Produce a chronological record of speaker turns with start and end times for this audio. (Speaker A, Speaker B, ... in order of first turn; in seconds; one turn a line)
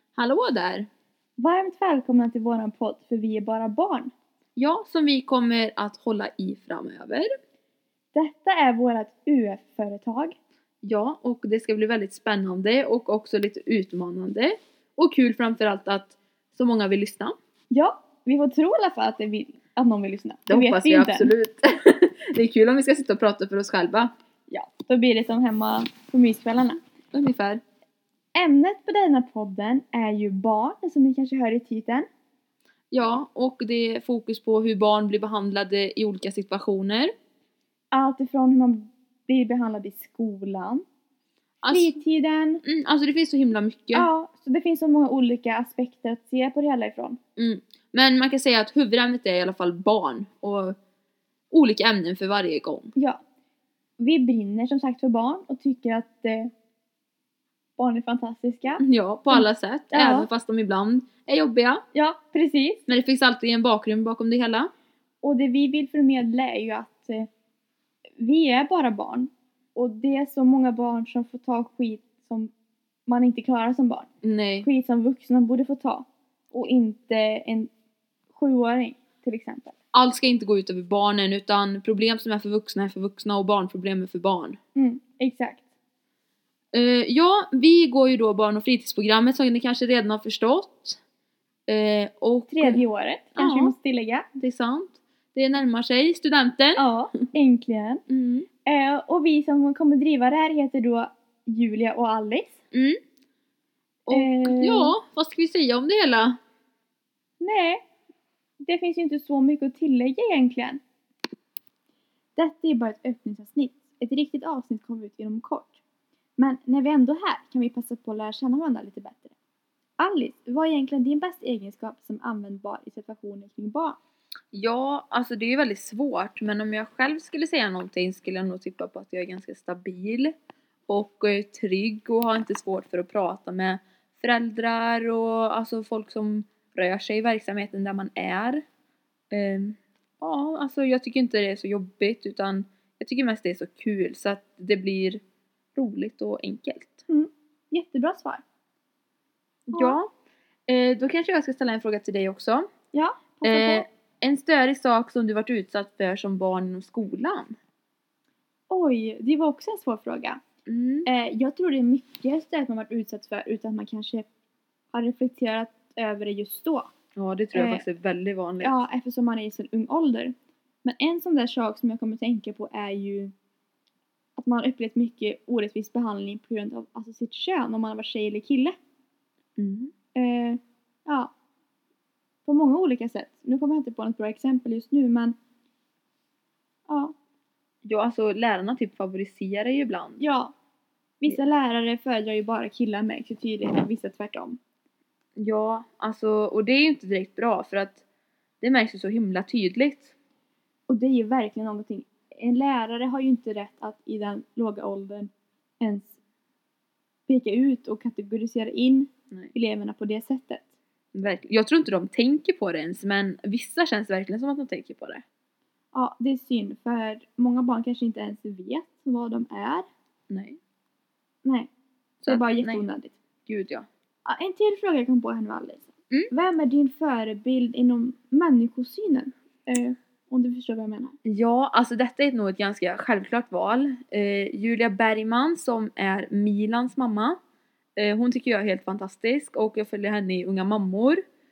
Speaker A: 0.1-0.9
Speaker B: 1.4-4.1
Speaker A: 4.5-7.3
Speaker B: 8.1-10.3
Speaker A: 10.8-17.3
Speaker B: 17.7-21.3
Speaker A: 20.5-24.1
Speaker B: 24.5-26.8
Speaker A: 27.1-27.6
Speaker B: 28.3-32.1
Speaker A: 32.9-37.1
Speaker B: 37.9-40.8
Speaker A: 41.6-41.9
Speaker B: 41.7-42.6
Speaker A: 42.6-44.1
Speaker B: 43.9-47.2
Speaker A: 47.4-50.8
Speaker A: 51.5-52.9
Speaker B: 53.0-53.2
Speaker B: 54.0-56.5
Speaker B: 57.8-60.3
Speaker A: 58.8-61.8
Speaker B: 61.9-62.8
Speaker A: 62.9-64.7
Speaker B: 65.2-67.3
Speaker B: 68.2-72.5
Speaker B: 73.1-74.1
Speaker A: 74.2-74.7
Speaker B: 74.6-77.7
Speaker B: 78.3-79.7
Speaker A: 79.9-84.6
Speaker B: 84.8-85.6
Speaker A: 86.7-91.0
Speaker A: 91.7-92.8
Speaker B: 92.5-94.2
Speaker A: 93.3-93.7
Speaker A: 94.3-96.9
Speaker B: 96.8-98.0
Speaker A: 98.1-98.5
Speaker B: 98.6-102.6
Speaker A: 102.7-103.0
Speaker A: 104.1-106.4
Speaker B: 104.1-104.9
Speaker B: 107.4-107.8
Speaker B: 108.6-110.8
Speaker B: 112.3-115.8
Speaker B: 116.4-119.3
Speaker B: 120.0-124.0
Speaker A: 124.5-130.3
Speaker A: 130.9-138.6
Speaker A: 139.3-145.2
Speaker A: 145.7-147.0
Speaker B: 147.1-148.4
Speaker A: 149.7-150.1
Speaker A: 150.7-152.7
Speaker B: 152.9-153.8
Speaker A: 153.4-157.5
Speaker B: 158.7-160.4
Speaker A: 160.7-161.1
Speaker B: 161.1-164.3
Speaker B: 164.9-166.9
Speaker A: 167.2-168.8
Speaker B: 167.5-167.8
Speaker B: 168.6-173.3
Speaker B: 174.4-178.8
Speaker A: 179.6-179.9
Speaker B: 180.1-181.3
Speaker B: 182.4-185.3
Speaker B: 186.9-187.1
Speaker A: 187.8-190.2
Speaker B: 190.2-190.5
Speaker B: 191.2-194.6
Speaker A: 195.4-198.0
Speaker A: 198.6-200.1
Speaker B: 200.9-206.1
Speaker B: 207.3-210.7
Speaker A: 211.1-215.2
Speaker B: 215.9-219.9
Speaker A: 220.3-220.6
Speaker B: 221.4-221.7
Speaker A: 222.2-222.8
Speaker B: 222.2-223.2
Speaker A: 223.5-223.9
Speaker B: 224.2-231.2
Speaker A: 231.2-237.4
Speaker A: 238.0-241.2